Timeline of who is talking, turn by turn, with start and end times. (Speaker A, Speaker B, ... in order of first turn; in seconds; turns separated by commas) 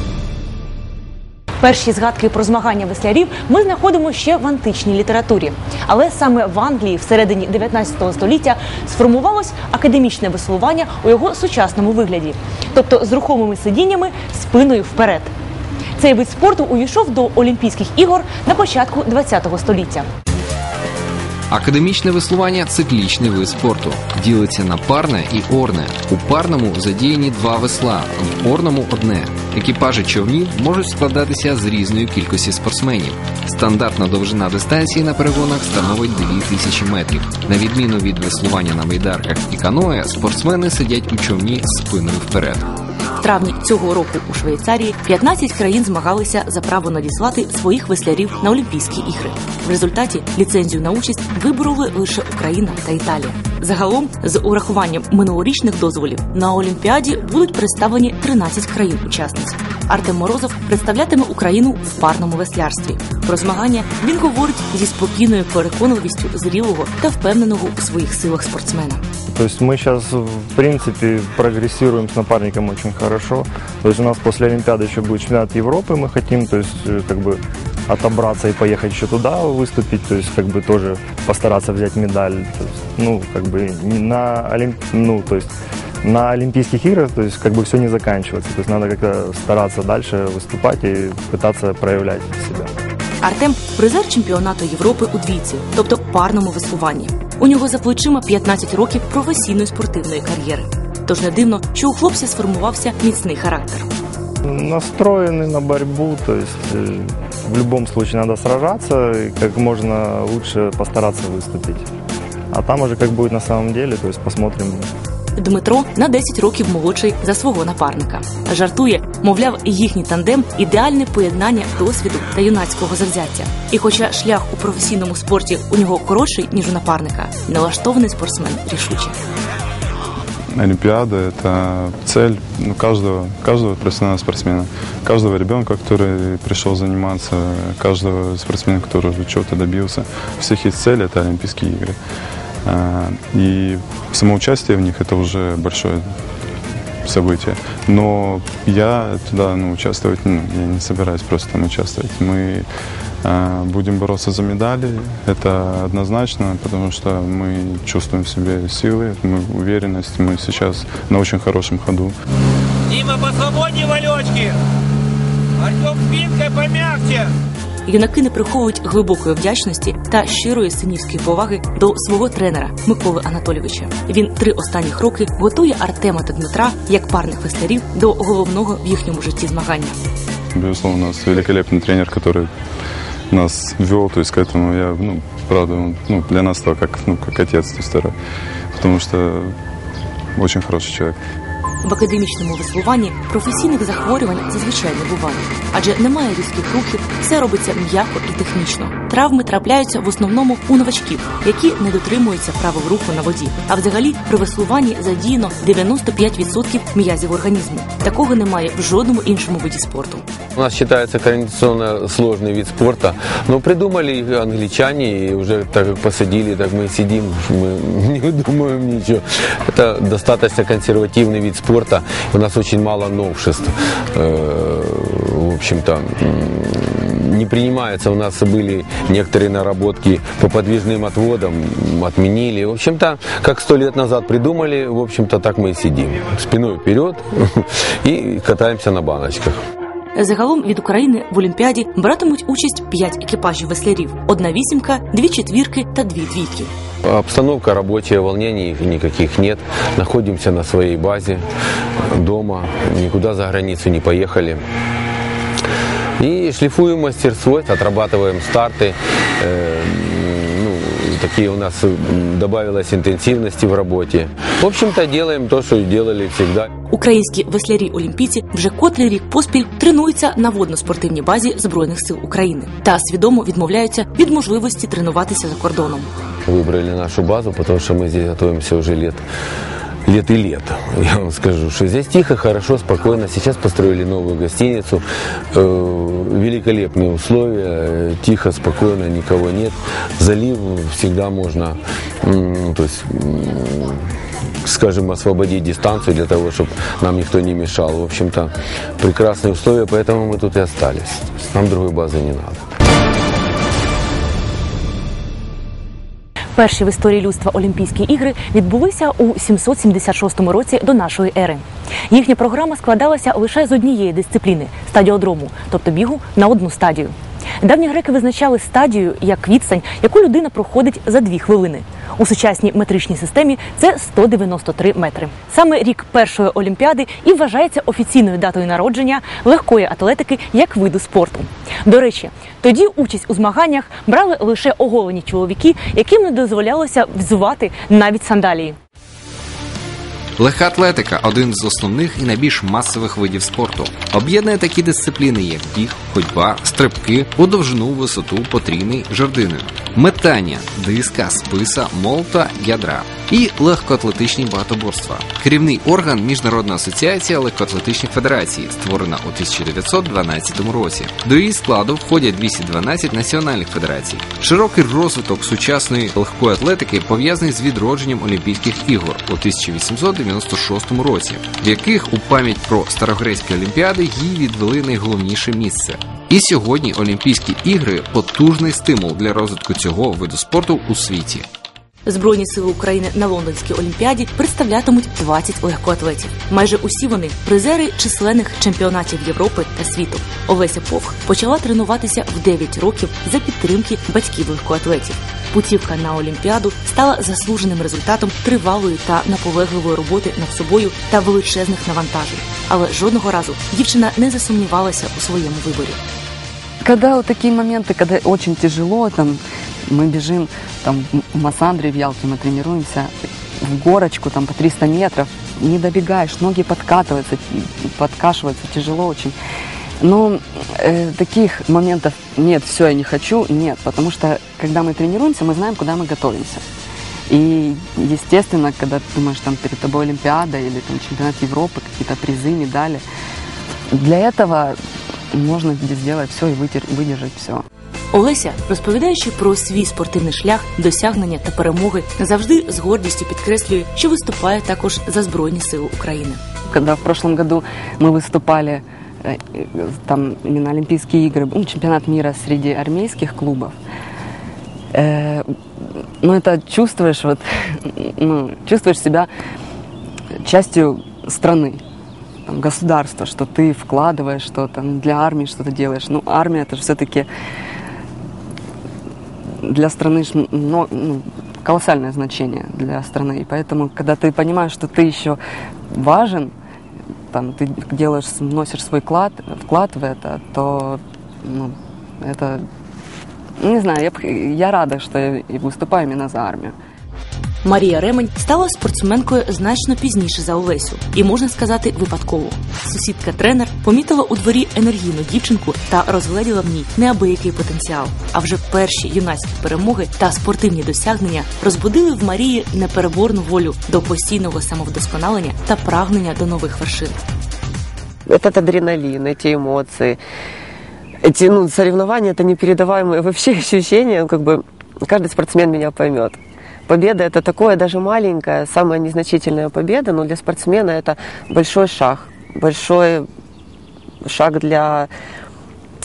Speaker A: 1.6-15.3, Speaker A: 16.0-20.1, Speaker B: 21.5-42.6, Speaker A: 43.2-69.0, Speaker C: 69.3-92.7, Speaker A: 93.2-103.9, Speaker C: 104.4-111.9, Speaker C: 112.5-114.9, Speaker A: 115.4-129.2, Speaker D: 130.6-142.0, Speaker D: 142.6-146.0, Speaker D: 147.0-152.7, Speaker D: 153.2-162.1, Speaker E: 162.9-164.5, Speaker E: 165.6-167.2, Speaker A: 167.8-179.9, Speaker D: 180.5-182.5, Speaker D: 183.3-188.1, Speaker D: 188.7-189.5, Speaker D: 190.3-191.1, Speaker A: 191.8-210.2, Speaker F: 210.6-237.4, Speaker F: 238.0-239.6, Speaker A: 240.1-246.7, Speaker F: 247.0-251.4, Speaker F: 252.1-254.6, Speaker F: 256.2-266.6, Speaker A: 266.9-276.1, Speaker F: 276.5-279.2, Speaker F: 280.1-294.0, Speaker F: 294.6-302.6, Speaker A: 306.6-338.8, Speaker B: 340.4-381.4, Speaker A: 382.1-406.0, Speaker G: 406.8-419.3, Speaker G: 420.0-426.6, Speaker G: 427.3-433.0, Speaker G: 433.9-434.8, Speaker G: 435.3-437.6, Speaker A: 438.1-446.4, Speaker G: 446.7-453.7, Speaker G: 454.9-455.4, Speaker G: 456.2-459.3, Speaker G: 460.4-461.8, Speaker G: 462.5-467.3, Speaker G: 469.6-475.4, Speaker G: 475.9-476.5, Speaker G: 477.3-482.6, Speaker G: 483.6-486.7, Speaker A: 487.6-507.2, Speaker H: 508.2-510.2, Speaker H: 511.2-523.3, Speaker H: 524.2-525.1